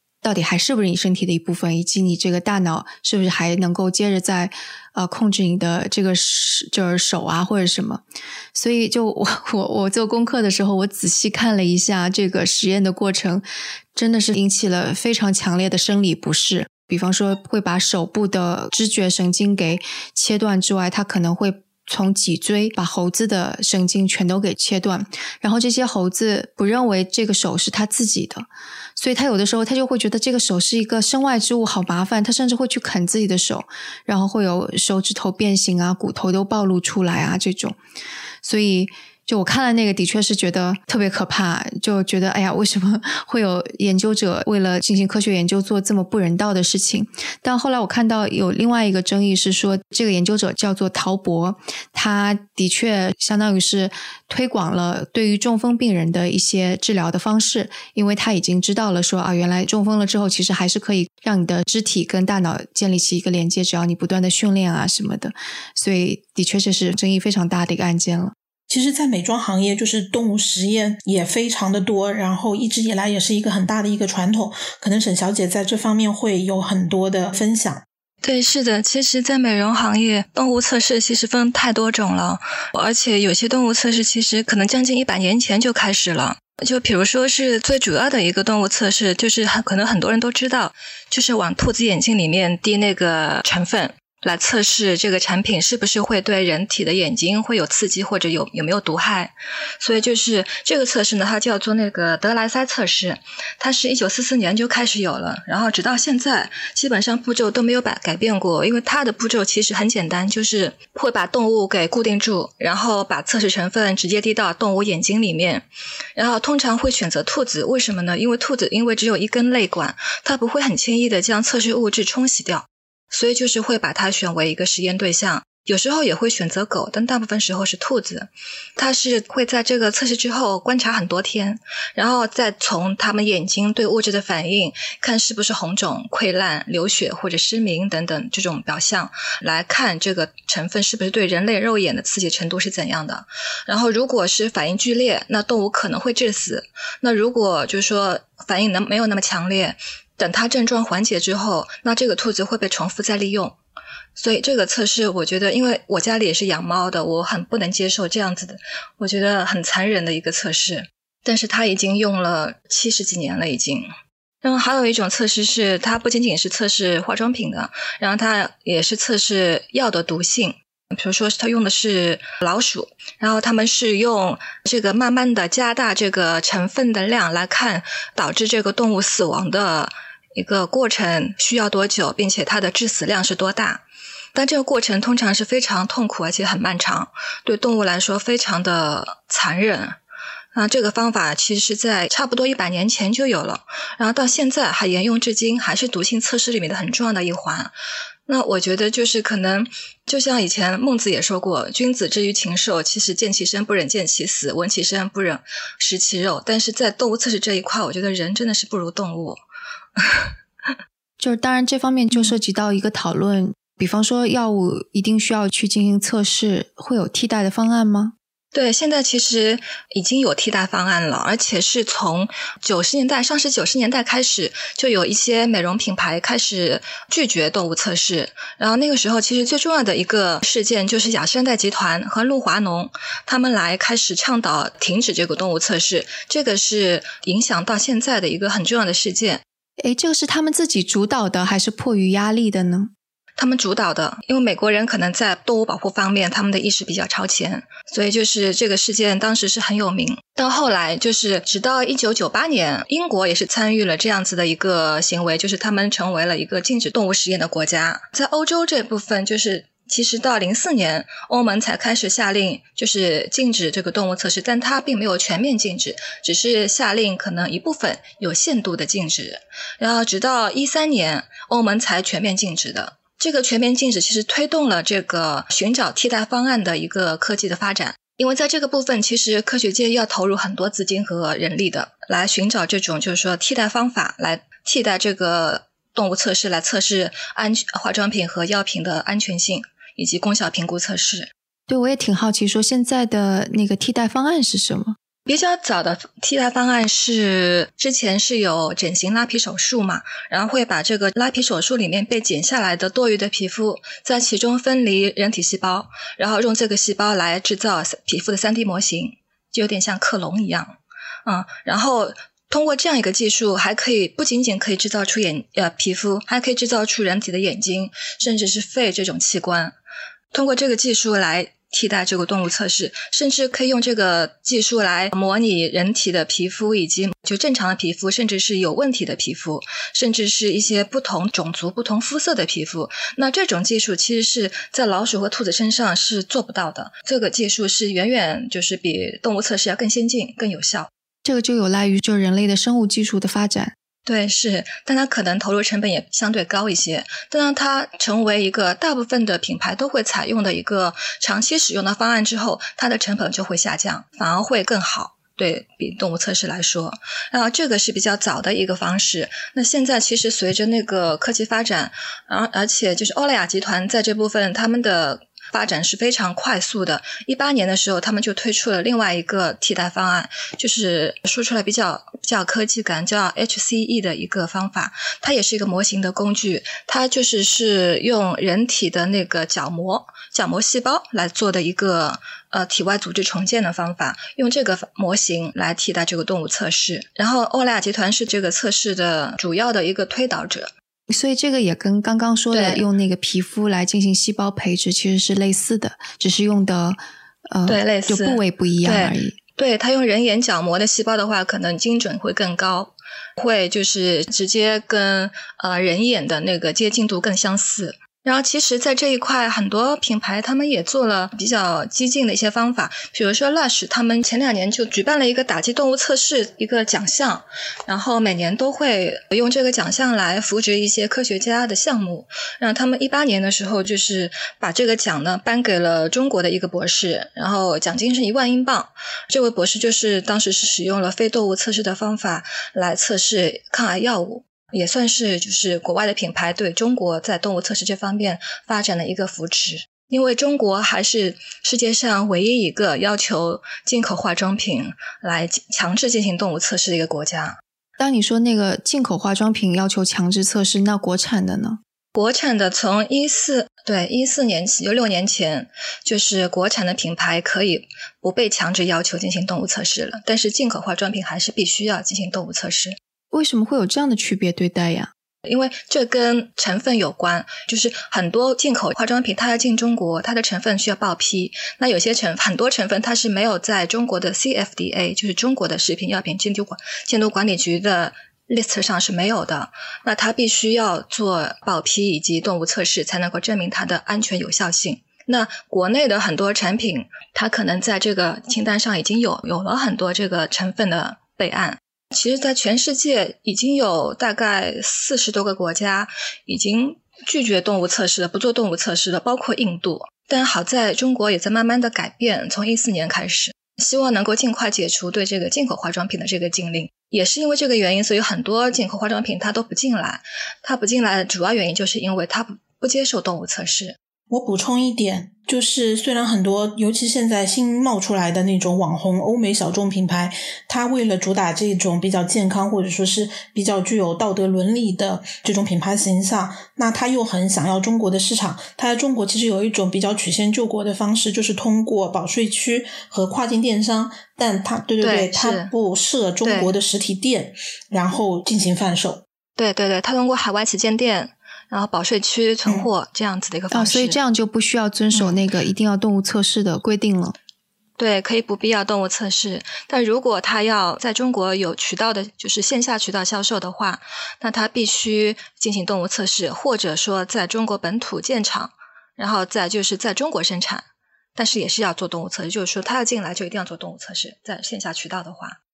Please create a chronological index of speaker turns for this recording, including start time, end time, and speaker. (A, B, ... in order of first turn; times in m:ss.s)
0:00.2-0:37.8 A
0:38.4-1:08.4 A
1:08.7-1:17.8 B
1:18.2-1:55.6 C
1:56.2-2:33.6 C
2:34.2-2:43.9 C
2:44.4-3:03.8 C
3:04.4-3:10.0 C
3:10.5-3:17.7 C
3:18.3-3:29.4 C
3:30.0-3:30.3 C
3:31.2-3:38.2 A
3:38.5-3:59.4 C
3:59.8-4:02.9 A
4:03.4-4:51.3 C
4:51.7-4:55.0 A
4:55.3-5:19.8 C
5:20.3-5:40.9 C
5:41.2-5:43.8 A
5:44.1-6:30.7 C
6:31.1-6:39.4 A
6:32.5-6:32.8 C
6:37.7-7:27.6 C
7:28.0-7:31.8 A
7:32.2-7:43.0 C
7:43.3-7:45.1 A
7:45.4-8:34.0 C
8:34.3-8:59.2 B
8:55.0-8:55.7 C
8:56.4-8:56.7 C
8:59.6-9:04.2 C
9:03.7-9:07.4 A
9:05.1-9:05.4 C
9:08.0-9:25.6 C